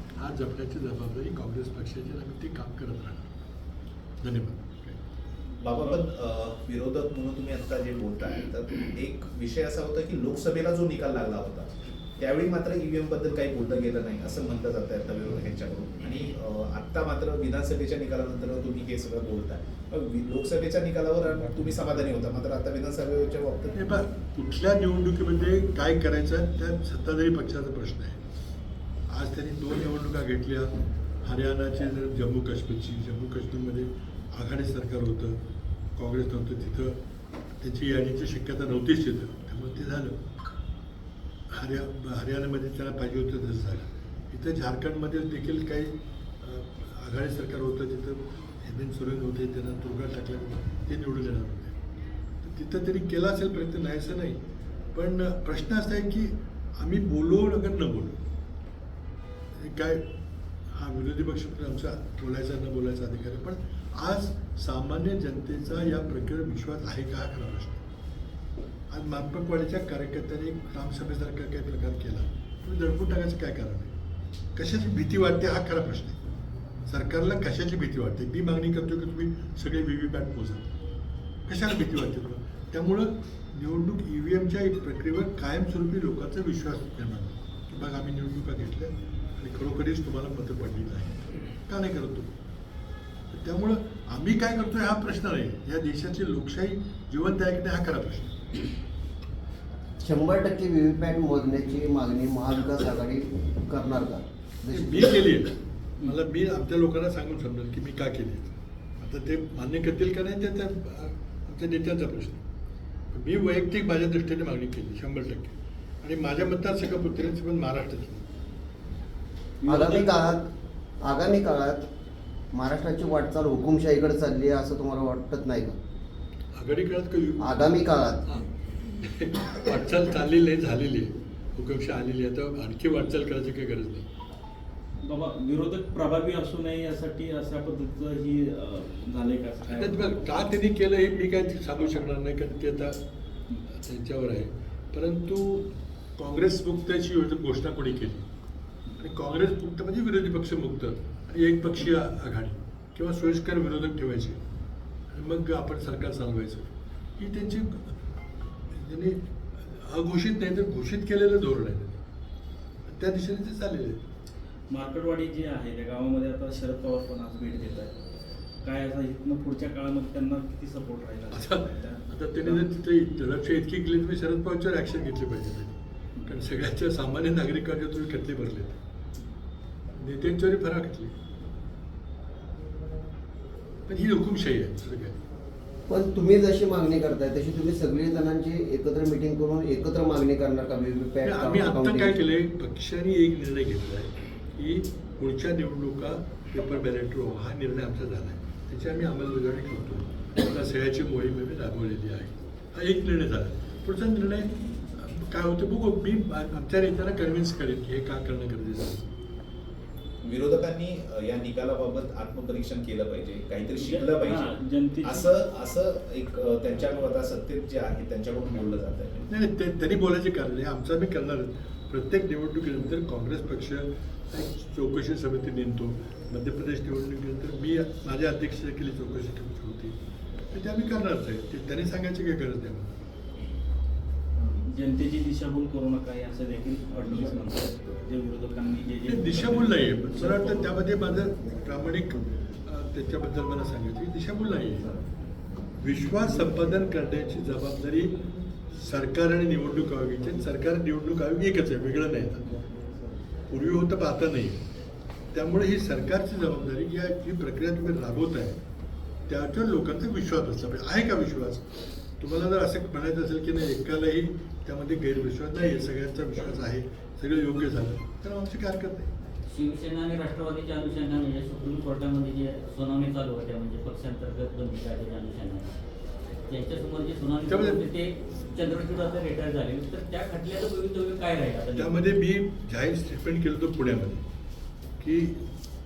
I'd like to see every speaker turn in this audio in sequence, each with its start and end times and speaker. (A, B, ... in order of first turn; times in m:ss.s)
0:00.2-0:03.3 A
0:04.2-0:05.0 A
0:05.6-0:23.8 B
0:23.7-0:28.2 A
0:29.1-0:35.4 A
0:36.0-0:37.0 A
0:37.6-0:40.2 A
0:41.5-0:51.8 A
0:52.4-0:54.4 A
0:54.9-0:58.2 A
0:59.6-1:00.1 A
1:00.7-1:07.8 A
1:08.9-1:13.9 A
1:14.6-1:16.2 A
1:16.9-1:20.7 A
1:21.5-1:32.3 A
1:33.3-1:38.4 A
1:40.0-1:45.1 C
1:44.7-1:52.4 A
1:53.1-1:58.3 A
1:59.7-2:00.5 C
2:01.0-2:01.9 C
2:02.5-2:05.8 C
2:06.5-2:07.7 A
2:07.4-2:08.3 C
2:09.0-2:14.1 A
2:15.0-2:20.4 D
2:19.7-2:23.0 A
2:23.7-2:28.3 A
2:29.0-2:34.4 A
2:35.1-2:38.0 A
2:38.7-2:42.0 A
2:42.9-2:44.0 A
2:44.7-2:48.0 D
2:48.6-2:52.6 D
2:51.3-2:58.8 A
3:00.0-3:01.2 A
3:03.9-3:05.2 A
3:05.9-3:12.2 C
3:11.2-3:29.1 A
3:30.2-3:39.3 B
3:33.8-3:35.3 D
3:39.3-3:50.0 A
3:50.5-3:53.0 A
3:54.5-4:00.7 D
3:59.1-4:04.9 A
4:05.8-4:08.1 A
4:08.7-4:12.6 A
4:13.5-4:14.6 A
4:15.3-4:18.6 A
4:19.3-4:29.1 A
4:29.5-4:35.7 E
4:36.5-4:42.0 E
4:37.5-4:37.8 A
4:41.8-4:44.2 A
4:45.0-4:45.4 A